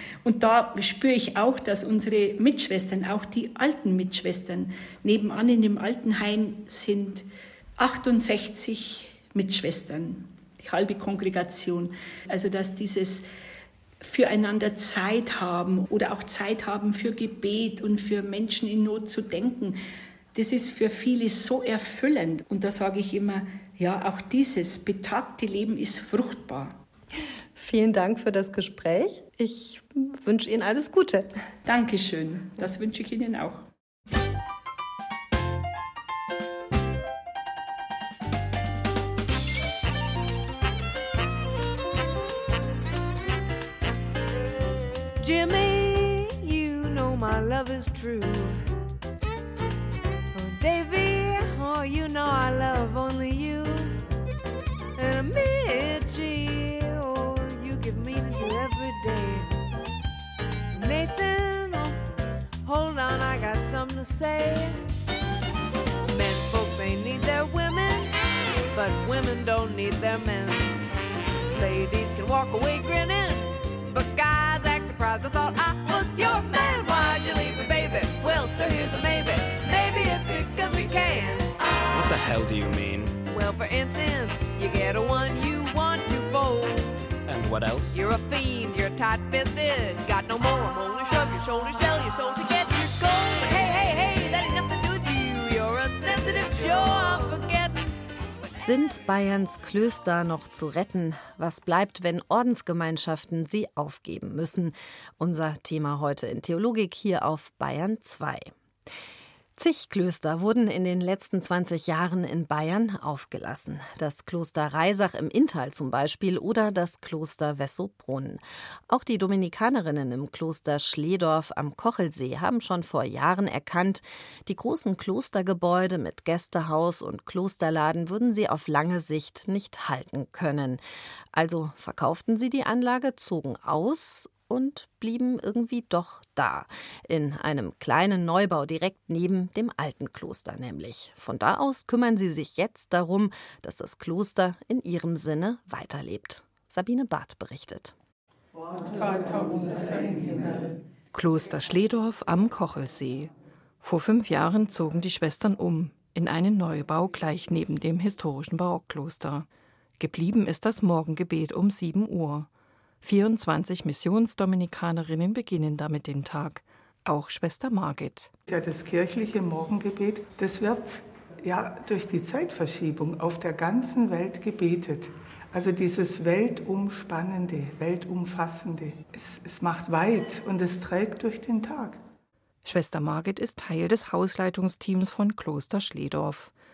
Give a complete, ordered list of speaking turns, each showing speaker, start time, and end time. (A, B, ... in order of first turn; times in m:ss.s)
0:00.2-0:07.2 A
0:07.8-0:13.2 A
0:14.0-0:19.8 A
0:20.3-0:26.8 A
0:27.6-0:31.3 B
0:31.6-0:33.7 A
0:45.2-0:48.6 C
0:50.3-0:54.0 C
0:55.0-0:59.5 C
1:00.7-1:02.0 C
1:02.6-1:04.8 C
1:06.0-1:08.1 C
1:08.7-1:10.7 C
1:11.5-1:21.7 C
1:21.9-1:23.2 D
1:23.3-1:27.0 C
1:27.3-1:28.0 D
1:27.9-1:38.0 C
1:38.6-1:48.5 B
1:49.6-2:10.8 B
2:11.3-2:27.9 B
2:31.1-2:33.3 E
2:33.8-2:39.4 E
2:40.0-2:42.5 E
2:43.0-2:48.3 E
2:48.5-3:02.0 F
3:02.6-3:06.5 E